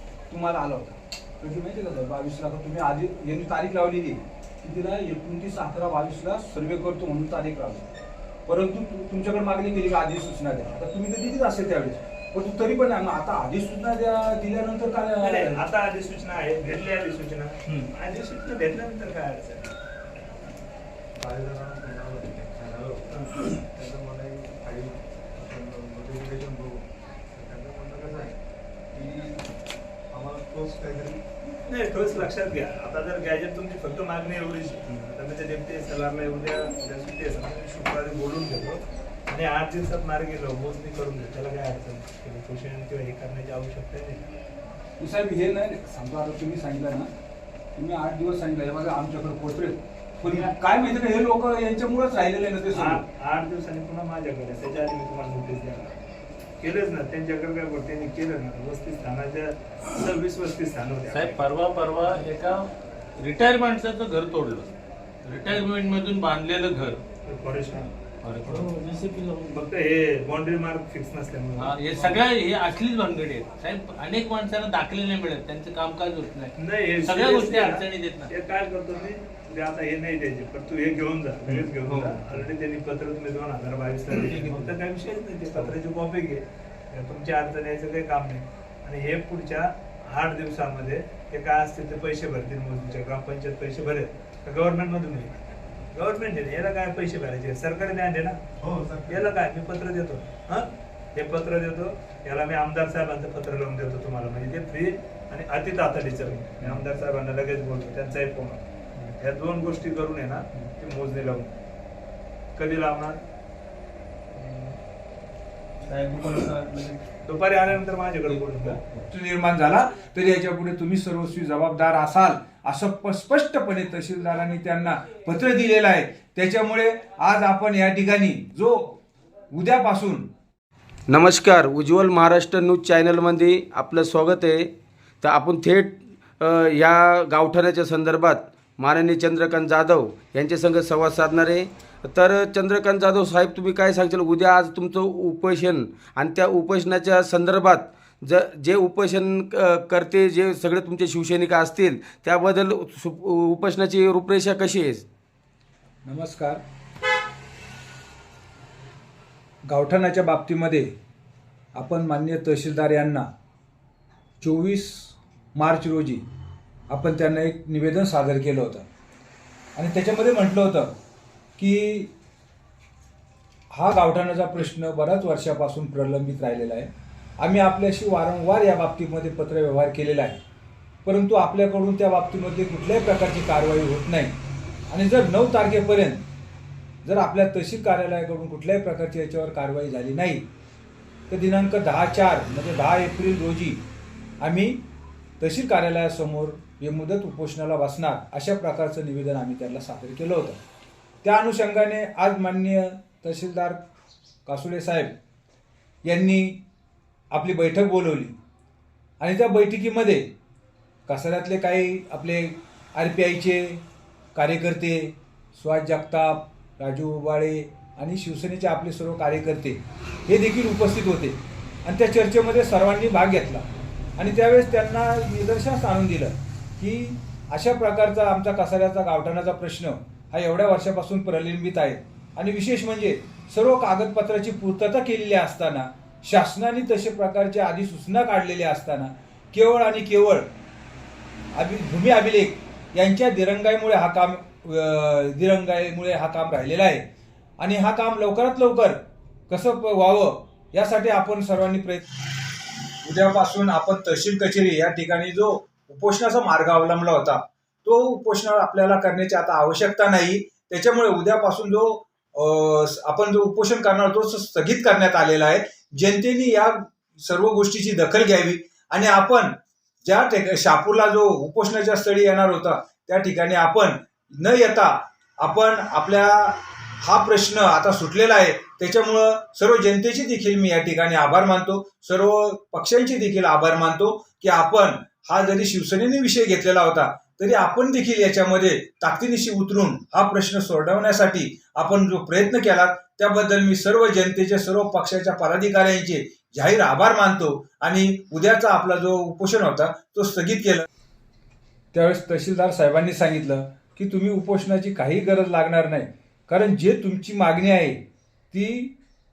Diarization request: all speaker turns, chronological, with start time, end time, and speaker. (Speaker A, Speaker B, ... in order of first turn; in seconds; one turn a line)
Speaker A: 0.3-7.9
Speaker A: 8.5-15.6
Speaker B: 15.2-19.7
Speaker C: 21.2-28.4
Speaker B: 23.1-23.4
Speaker C: 28.9-29.4
Speaker C: 30.1-31.2
Speaker B: 31.6-44.3
Speaker A: 45.0-47.1
Speaker A: 47.7-53.0
Speaker B: 52.7-55.9
Speaker B: 56.6-61.4
Speaker D: 61.1-64.7
Speaker D: 65.2-67.0
Speaker B: 67.2-67.9
Speaker D: 68.2-69.4
Speaker B: 69.4-71.7
Speaker D: 71.6-78.3
Speaker B: 76.5-95.3
Speaker C: 81.9-82.2
Speaker C: 84.2-84.7
Speaker B: 95.9-98.4
Speaker C: 98.6-99.2
Speaker B: 99.1-108.6
Speaker B: 109.1-111.5
Speaker B: 112.5-113.2
Speaker C: 115.9-117.0
Speaker B: 117.2-118.8
Speaker A: 119.1-129.0
Speaker A: 129.5-130.3
Speaker E: 131.1-155.0
Speaker A: 156.0-156.6
Speaker A: 159.7-160.9
Speaker A: 161.7-163.3
Speaker A: 164.4-166.2
Speaker A: 166.9-168.8
Speaker A: 169.7-170.9
Speaker A: 171.6-172.1
Speaker A: 173.7-180.4
Speaker A: 181.0-184.3
Speaker A: 184.9-186.2
Speaker A: 187.0-190.4
Speaker A: 191.3-193.8
Speaker A: 194.4-194.8
Speaker A: 195.4-200.6
Speaker A: 201.2-203.8
Speaker A: 204.4-205.1
Speaker A: 206.0-206.6
Speaker A: 207.3-208.3
Speaker A: 209.2-210.3
Speaker A: 211.1-213.8
Speaker A: 214.3-223.7
Speaker A: 224.2-240.5
Speaker A: 241.5-247.0
Speaker A: 247.6-249.0
Speaker A: 249.5-252.4
Speaker A: 253.0-300.9
Speaker A: 301.9-308.9